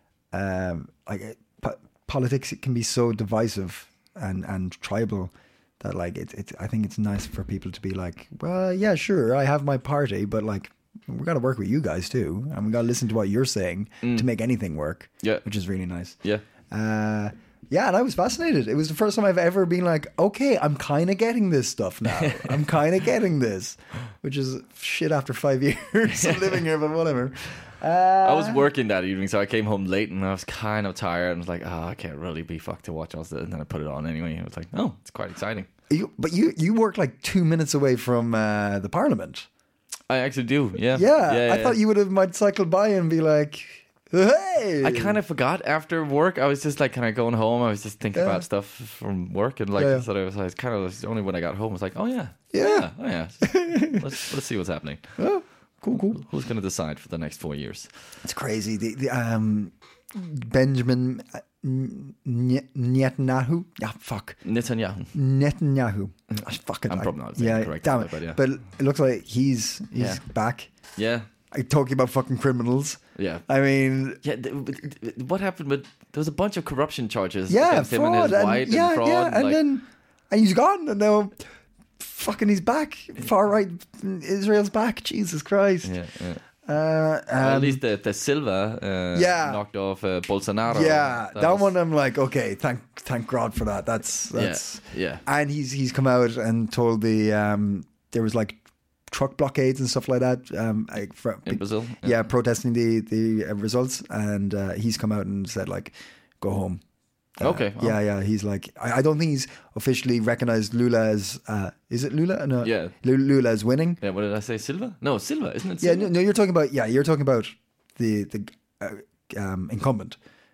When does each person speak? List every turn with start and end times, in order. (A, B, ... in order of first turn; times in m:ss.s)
0:00.3-0:16.2 A
0:14.0-0:14.3 B
0:16.7-0:28.7 A
0:22.1-0:22.6 B
0:26.2-0:26.6 B
0:28.2-0:35.7 B
0:35.9-0:39.5 A
0:40.1-0:41.8 B
0:40.9-0:45.2 A
0:44.8-0:55.1 B
0:48.1-0:48.4 A
0:49.8-0:50.1 A
0:52.5-0:52.9 A
0:53.4-0:54.0 A
0:55.2-0:56.2 A
0:55.9-0:57.9 B
0:58.2-1:04.4 A
1:04.4-1:05.1 B
1:05.1-1:10.7 A
1:06.4-1:08.4 B
1:11.0-1:11.3 B
1:11.5-1:14.2 A
1:13.2-1:13.4 B
1:14.2-1:19.6 B
1:17.5-1:21.4 A
1:22.0-1:25.9 A
1:25.8-1:26.4 B
1:26.6-1:27.8 A
1:27.4-1:31.7 B
1:29.1-1:29.6 A
1:30.7-1:46.8 A
1:34.3-1:35.2 B
1:41.5-1:42.2 B
1:47.4-1:54.0 A
1:47.4-1:48.0 B
1:52.6-1:52.9 B
1:54.0-1:56.1 B
1:55.8-2:00.2 A